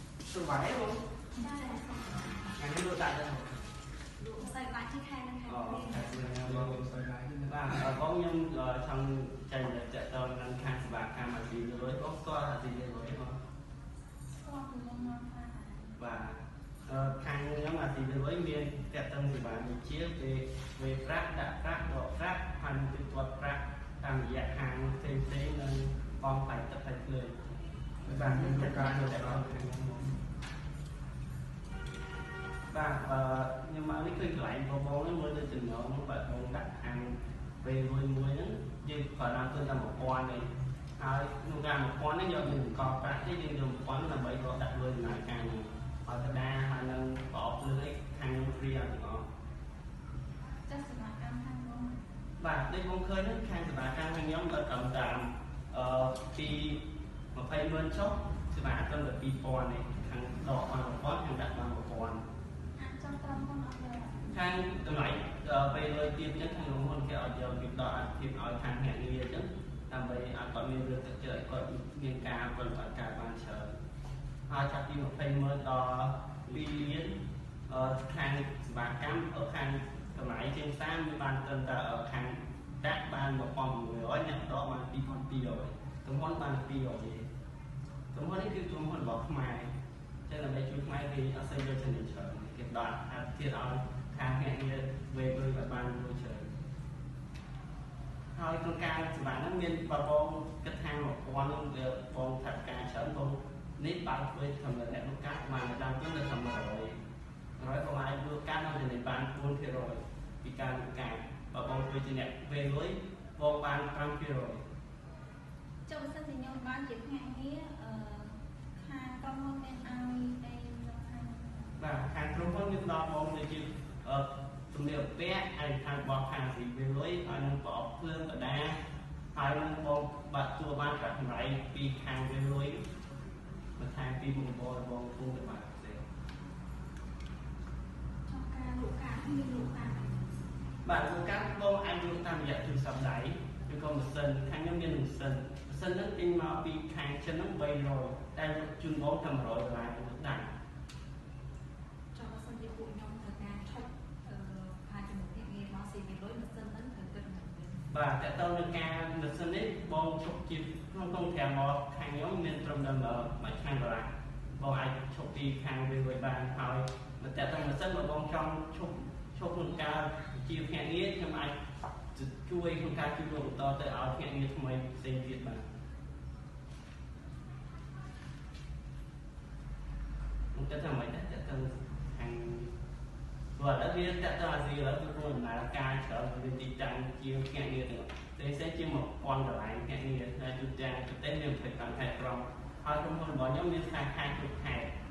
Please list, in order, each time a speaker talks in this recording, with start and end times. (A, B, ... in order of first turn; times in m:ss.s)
0:00.3-0:01.0 A
0:01.3-0:02.2 B
0:01.7-0:02.6 C
0:02.6-0:03.5 A
0:04.2-0:06.2 C
0:05.4-0:06.8 A
0:06.2-0:07.6 D
0:07.4-0:13.4 A
0:14.3-0:15.9 B
0:16.0-0:27.3 A
0:28.1-0:30.1 A
0:28.1-0:28.5 D
0:28.6-0:29.0 C
0:29.3-0:29.6 D
0:32.7-0:49.2 A
0:50.7-0:52.0 B
0:52.4-0:56.8 A
0:57.3-1:02.2 A
1:02.8-1:04.4 B
1:04.3-1:13.7 A
1:14.5-1:17.1 A
1:17.7-1:27.3 A
1:28.1-1:29.7 A
1:30.3-1:36.5 A
1:38.3-1:47.0 A
1:47.6-1:54.6 A
1:55.9-2:01.7 B
2:01.8-2:08.8 A
2:09.3-2:12.8 A
2:13.8-2:16.0 A
2:18.3-2:20.2 B
2:20.8-2:30.5 A
2:32.1-2:37.8 C
2:37.9-2:51.5 A
2:52.1-2:55.6 A
3:00.5-3:02.7 A
3:03.6-3:14.9 A